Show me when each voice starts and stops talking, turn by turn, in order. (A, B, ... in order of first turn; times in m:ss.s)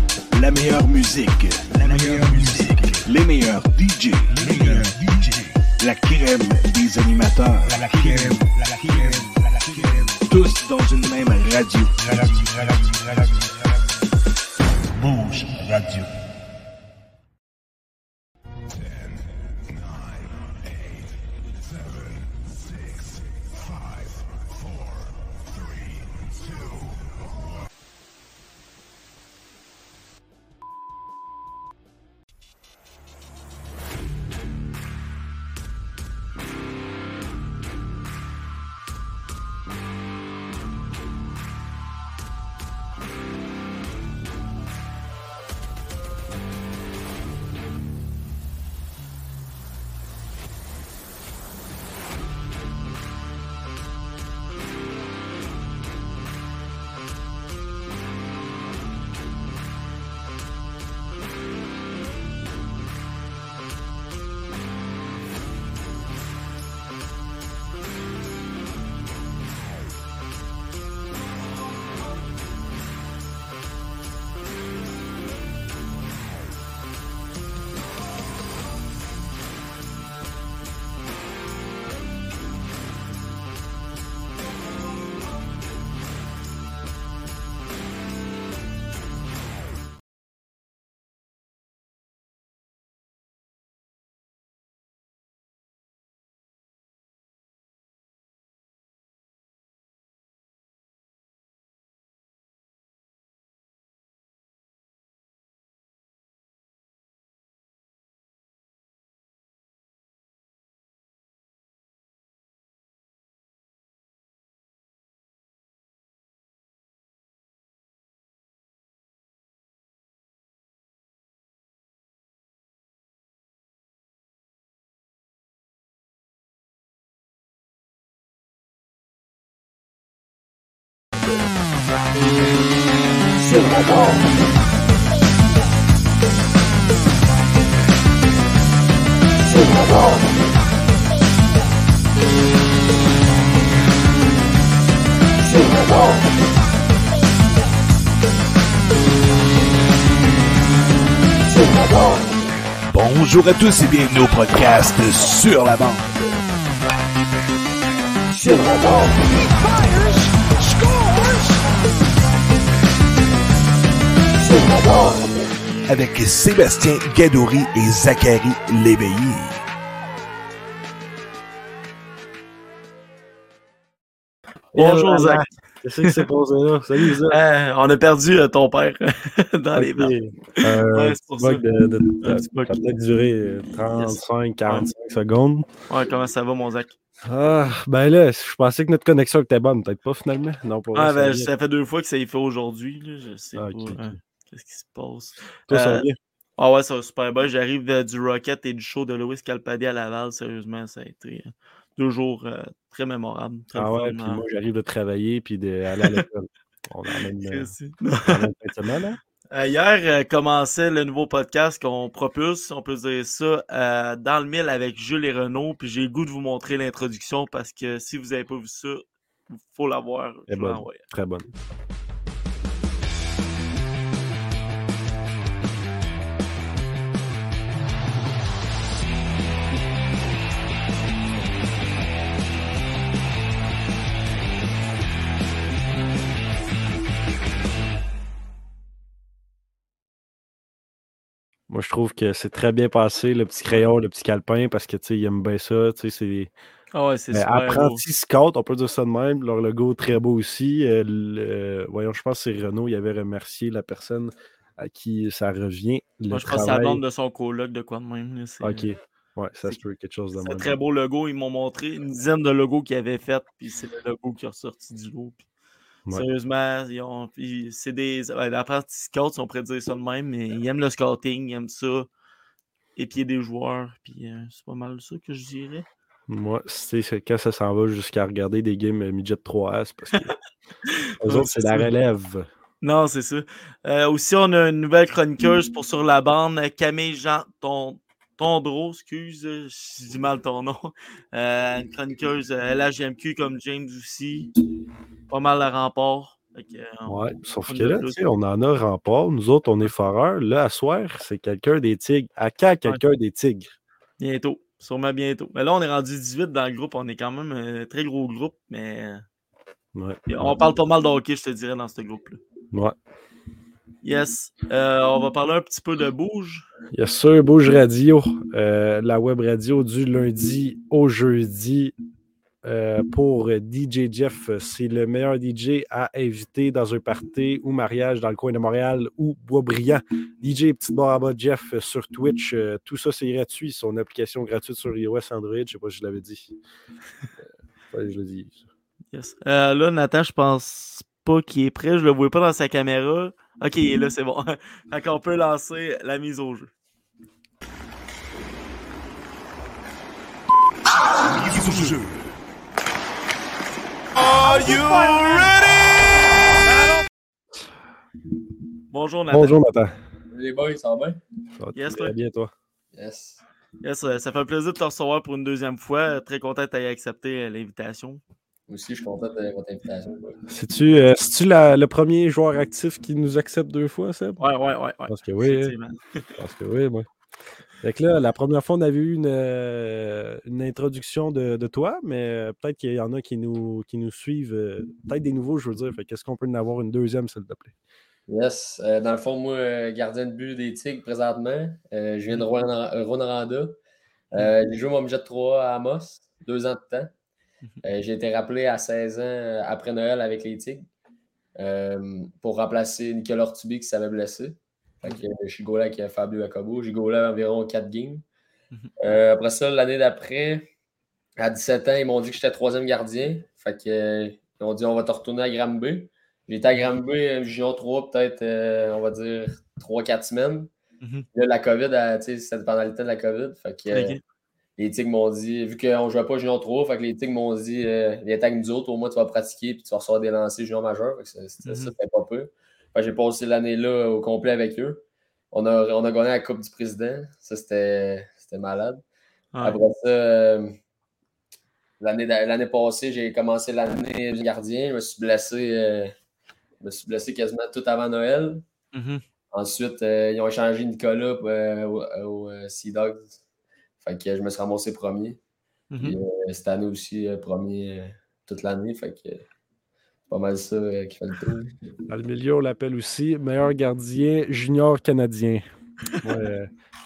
0:00.3-0:13.4 A
0:14.9-0:16.1 A
2:32.9-2:36.4 A
2:45.9-2:49.6 A
2:54.7-2:57.4 B
2:54.8-2:55.5 C
2:57.2-3:01.6 C
2:59.8-3:05.7 B
3:02.2-3:02.7 C
3:04.0-3:04.9 C
3:05.9-3:07.0 C
3:07.2-3:11.5 B
3:11.0-3:16.1 C
3:13.6-3:14.1 B
3:15.7-3:16.2 B
3:16.6-3:24.4 C
3:23.8-3:27.7 B
3:27.4-3:28.5 C
3:28.3-3:29.2 B
3:29.5-3:41.1 C
3:40.5-3:41.5 B
4:01.7-4:06.5 B
4:06.9-4:08.0 C
4:07.3-4:17.0 B
4:16.3-4:18.9 C
4:18.6-4:20.8 B
4:20.4-4:25.4 C
4:26.1-4:32.1 C
4:33.0-4:35.9 C
4:36.3-4:40.4 B
4:40.9-4:41.9 C
4:41.2-4:42.5 B
4:42.8-4:54.5 C
4:55.3-4:58.2 C
4:57.1-5:03.7 B
5:04.2-5:09.2 C
5:10.0-5:10.6 B
5:10.3-5:12.4 C
5:14.0-5:16.7 C
5:16.9-5:21.9 B
5:22.6-5:36.5 B
5:37.9-5:38.6 B
5:39.1-5:46.7 C
5:51.3-5:52.2 A
5:54.2-5:56.1 C
5:58.9-5:59.6 C
5:59.3-5:59.9 B
6:00.3-6:01.2 D
6:01.6-6:02.5 B
6:01.8-6:02.1 C
6:02.9-6:03.4 D
6:03.8-6:08.2 C
6:08.7-6:10.4 D
6:10.5-6:14.4 B
6:14.4-6:16.3 C
6:15.1-6:15.7 B
6:16.4-6:17.1 B
6:17.8-6:27.7 B
6:28.3-6:33.8 D
6:34.3-6:37.1 D
6:37.8-6:40.9 D
6:41.6-6:48.2 D
6:49.0-6:50.7 D
6:51.4-7:00.7 D
7:01.4-7:04.2 D
7:03.9-7:04.2 C
7:04.8-7:19.0 D
7:11.6-7:11.9 C
7:19.6-7:20.8 D
7:22.0-7:26.1 D
7:26.8-7:28.6 D
7:28.9-7:29.2 C
7:29.5-7:33.4 D
7:34.0-7:35.4 D
7:35.9-7:36.2 C
7:36.0-7:39.4 D
7:40.3-7:41.7 D
7:42.1-7:45.6 B
7:46.2-7:46.7 B